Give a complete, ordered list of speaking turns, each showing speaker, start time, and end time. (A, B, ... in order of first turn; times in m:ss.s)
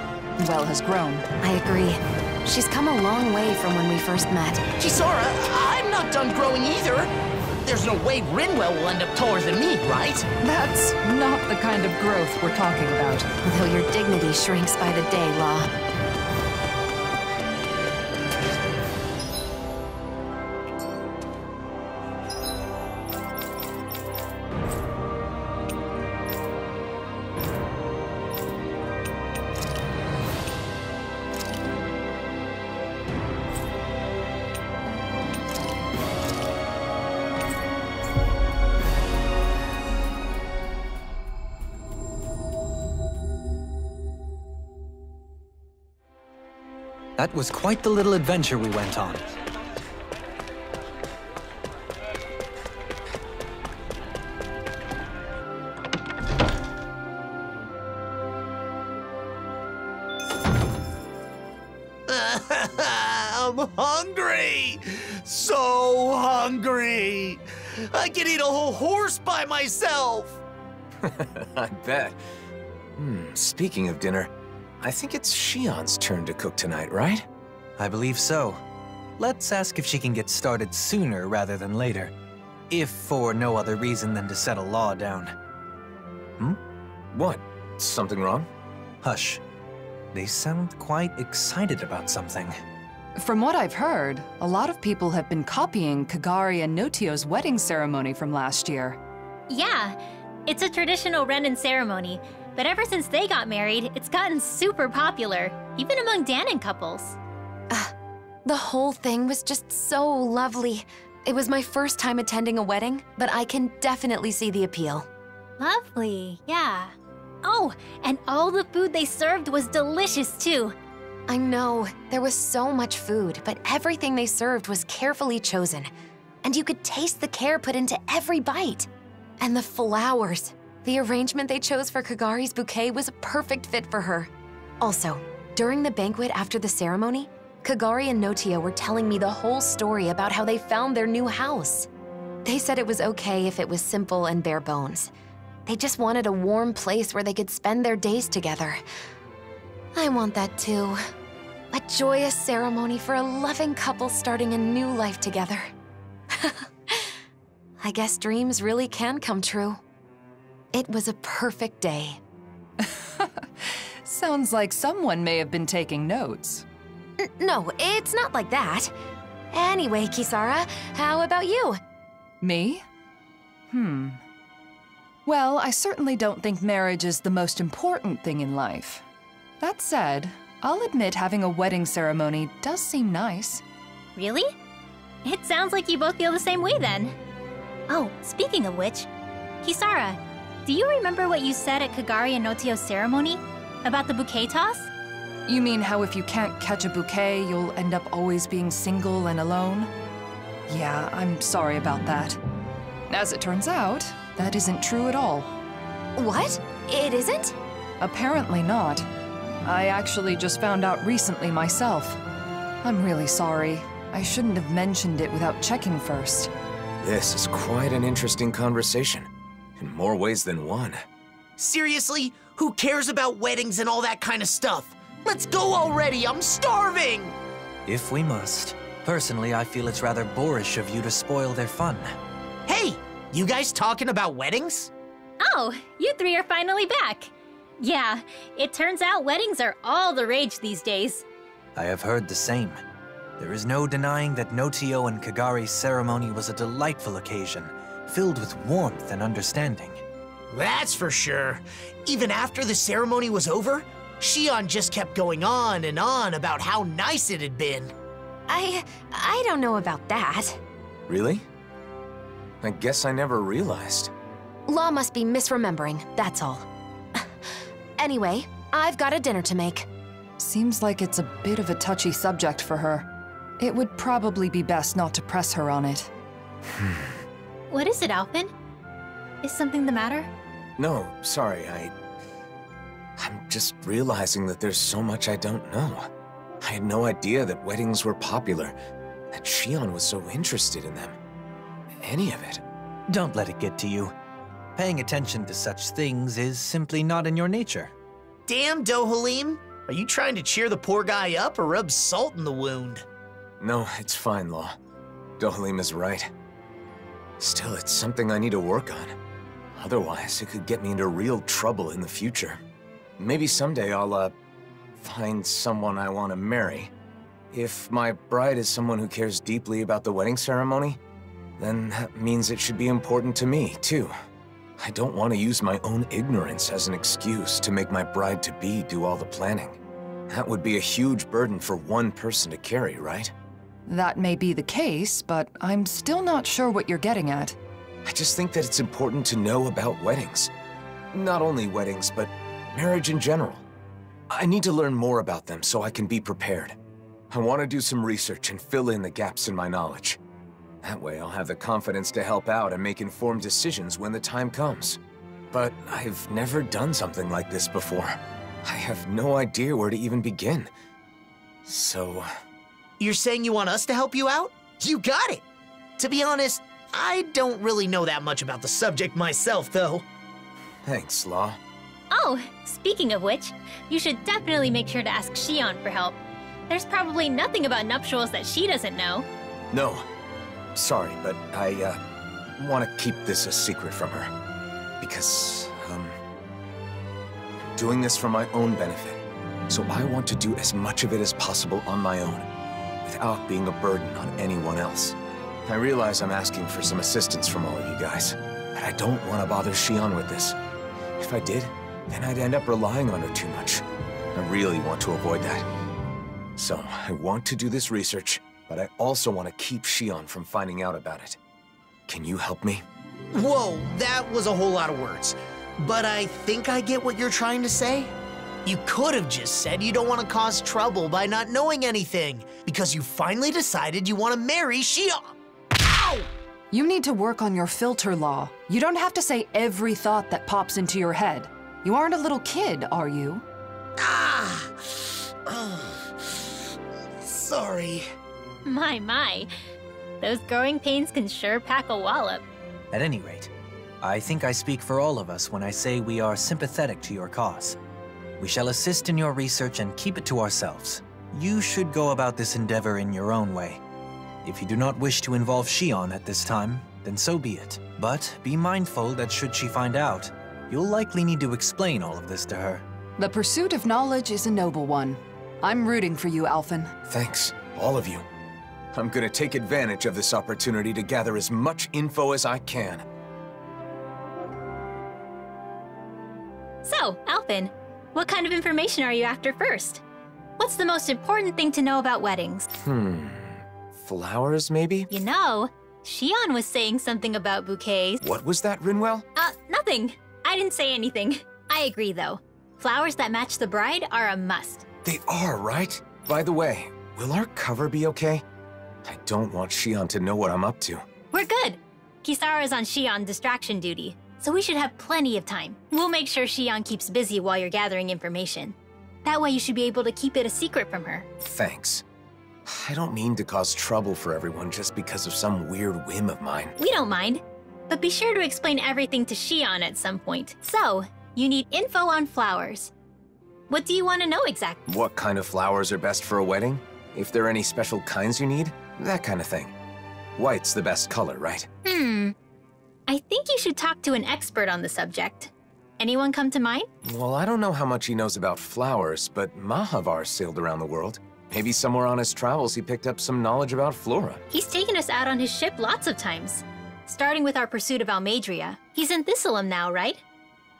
0:00.4-0:01.3 A
0:01.4-0:04.6 B
0:04.8-0:07.1 C
0:07.6-0:10.2 C
0:10.4-0:13.3 A
0:13.4-0:15.7 B
0:47.2-0:49.4 D
1:02.1-1:10.4 C
1:11.0-1:12.2 E
1:13.0-1:17.2 E
1:17.8-1:18.6 D
1:19.2-1:22.1 D
1:22.7-1:25.3 D
1:27.1-1:28.5 E
1:29.0-1:29.4 D
1:30.1-1:32.5 D
1:33.2-1:39.0 A
1:39.5-1:47.2 F
1:48.4-1:55.1 B
1:55.6-2:00.7 F
2:01.3-2:05.9 B
2:06.4-2:08.9 B
2:09.4-2:21.9 B
2:22.4-2:25.1 B
2:25.6-2:28.8 B
2:29.9-2:31.0 B
2:31.7-2:35.7 B
2:36.3-2:37.1 B
2:37.8-2:39.8 B
2:40.7-2:42.2 B
2:42.8-2:46.6 A
2:47.2-2:48.9 B
2:49.5-2:51.8 B
2:52.4-2:52.8 A
2:53.7-2:54.2 A
2:55.2-2:59.0 A
2:59.6-3:03.6 A
3:04.2-3:04.5 F
3:05.2-3:07.1 F
3:07.9-3:09.1 F
3:09.6-3:14.9 F
3:15.5-3:19.9 A
3:20.7-3:22.4 A
3:23.1-3:25.5 A
3:26.2-3:27.5 B
3:28.0-3:29.0 A
3:29.6-3:32.2 A
3:32.8-3:36.5 A
3:37.0-3:41.0 E
3:41.6-3:47.4 C
3:47.9-3:52.1 D
3:52.7-3:54.9 C
3:55.4-4:01.2 F
4:01.8-4:02.8 D
4:03.4-4:10.0 D
4:10.5-4:17.9 C
4:18.5-4:20.6 B
4:21.1-4:21.4 E
4:22.6-4:24.1 E
4:24.7-4:27.3 B
4:28.0-4:29.9 B
4:30.4-4:33.0 A
4:33.6-4:36.1 A
4:36.8-4:37.1 E
4:37.7-4:38.5 F
4:39.4-4:40.3 F
4:40.8-4:41.9 E
4:43.2-4:46.1 E
4:46.6-4:48.8 E
4:49.3-4:51.2 E
4:52.0-4:52.6 E
4:53.1-4:54.1 D
4:54.8-4:57.9 D
4:58.5-5:03.0 C
5:03.6-5:04.7 E
5:05.4-5:06.3 E
5:07.4-5:09.1 E
5:09.7-5:12.6 E
5:13.2-5:14.3 E
5:15.0-5:16.9 E
5:17.5-5:21.0 E
5:21.6-5:24.1 E
5:24.8-5:29.8 E
5:30.3-5:33.3 E
5:33.9-5:37.6 A
5:38.0-5:40.5 E
5:41.1-5:43.6 E
5:44.3-5:46.7 E
5:47.3-5:50.2 E
5:50.8-5:55.0 E
5:55.5-6:00.7 E
6:01.6-6:02.3 E
6:03.0-6:05.4 C
6:06.0-6:10.0 C
6:10.8-6:11.6 E
6:12.1-6:16.2 F
6:16.7-6:19.2 F
6:19.7-6:20.0 E
6:20.8-6:22.0 E
6:22.6-6:24.3 E
6:25.0-6:26.2 E
6:27.8-6:32.5 E
6:33.0-6:35.1 E
6:35.7-6:40.6 E
6:41.2-6:43.8 E
6:44.3-6:45.6 E
6:46.6-6:51.4 E
6:52.1-6:52.8 E
6:53.3-6:58.1 C
6:58.6-7:06.3 C
7:06.7-7:13.4 A
7:14.0-7:16.5 C
7:17.2-7:18.0 C
7:18.6-7:19.5 F
7:20.2-7:22.4 F
7:22.9-7:23.5 D
7:24.0-7:27.8 D
7:28.4-7:33.8 D
7:34.4-7:42.8 D
7:43.2-7:46.9 A
7:47.1-7:48.2 E
7:48.9-7:53.0 E
7:56.8-8:00.0 F
8:00.6-8:02.7 F
8:02.8-8:05.1 E
8:05.1-8:08.2 F
8:08.2-8:09.2 E
8:09.4-8:14.8 F
8:15.0-8:18.4 E
8:19.0-8:21.0 E
8:21.3-8:31.3 F
8:31.4-8:32.0 E
8:32.6-8:36.7 E
8:36.8-8:42.9 F
8:43.7-8:44.8 F
8:44.9-8:49.7 E
8:50.4-8:51.7 E
8:51.8-8:52.3 F
8:53.1-8:56.9 F
8:57.0-9:04.4 E
9:04.5-9:10.2 F